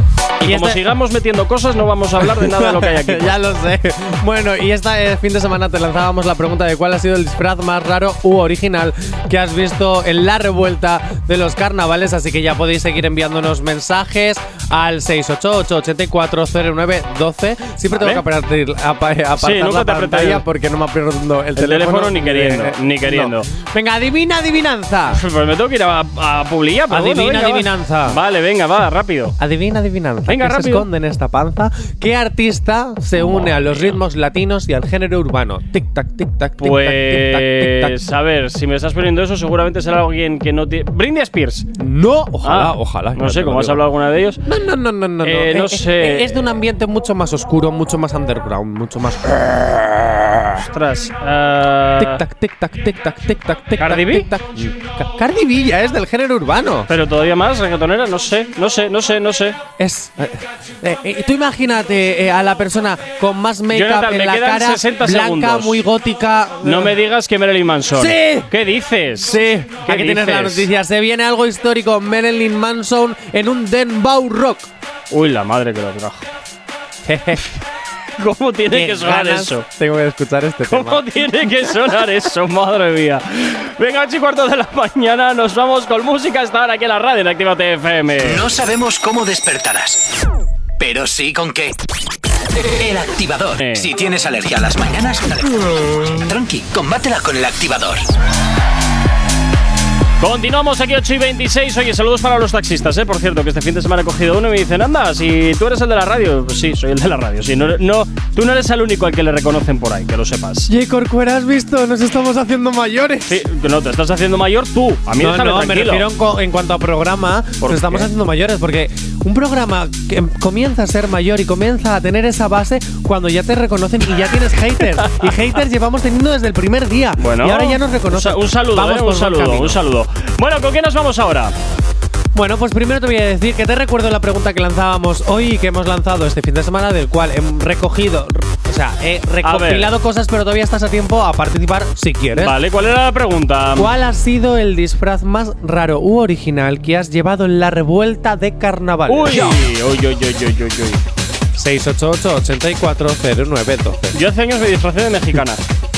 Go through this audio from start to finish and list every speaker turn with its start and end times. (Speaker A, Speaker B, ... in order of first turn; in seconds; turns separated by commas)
Speaker A: 0.4-3.4, Speaker B: 0.4-0.8, Speaker B: 2.2-25.2, Speaker A: 17.9-18.2, Speaker A: 19.4-20.4, Speaker A: 21.6-23.5, Speaker A: 25.1-29.4, Speaker B: 26.9-28.2, Speaker B: 29.4-38.0, Speaker A: 30.3-30.9, Speaker A: 33.2-34.0, Speaker A: 36.6-41.7, Speaker B: 41.7-43.8, Speaker A: 42.4-44.4, Speaker B: 44.4-50.6, Speaker A: 45.2-46.5, Speaker A: 50.6-52.2, Speaker B: 52.0-56.9, Speaker A: 53.8-54.3, Speaker A: 56.9-59.6, Speaker B: 59.8-67.0, Speaker A: 63.7-65.8, Speaker A: 66.6-70.7, Speaker B: 67.9-68.5, Speaker B: 69.2-74.7, Speaker A: 75.1-76.3, Speaker B: 77.0-77.6, Speaker A: 78.2-79.7, Speaker B: 78.7-81.1, Speaker A: 80.7-88.4, Speaker C: 88.2-90.0, Speaker C: 90.8-91.8, Speaker C: 92.8-98.1, Speaker A: 93.6-93.9, Speaker A: 100.2-110.7, Speaker B: 110.7-113.4, Speaker A: 113.2-116.1, Speaker B: 115.2-129.8, Speaker A: 117.6-118.1, Speaker A: 127.2-131.5, Speaker B: 132.3-142.6, Speaker A: 139.4-139.9, Speaker A: 142.3-143.9, Speaker B: 143.7-149.6, Speaker A: 149.1-151.0, Speaker B: 151.5-154.2, Speaker A: 154.1-155.6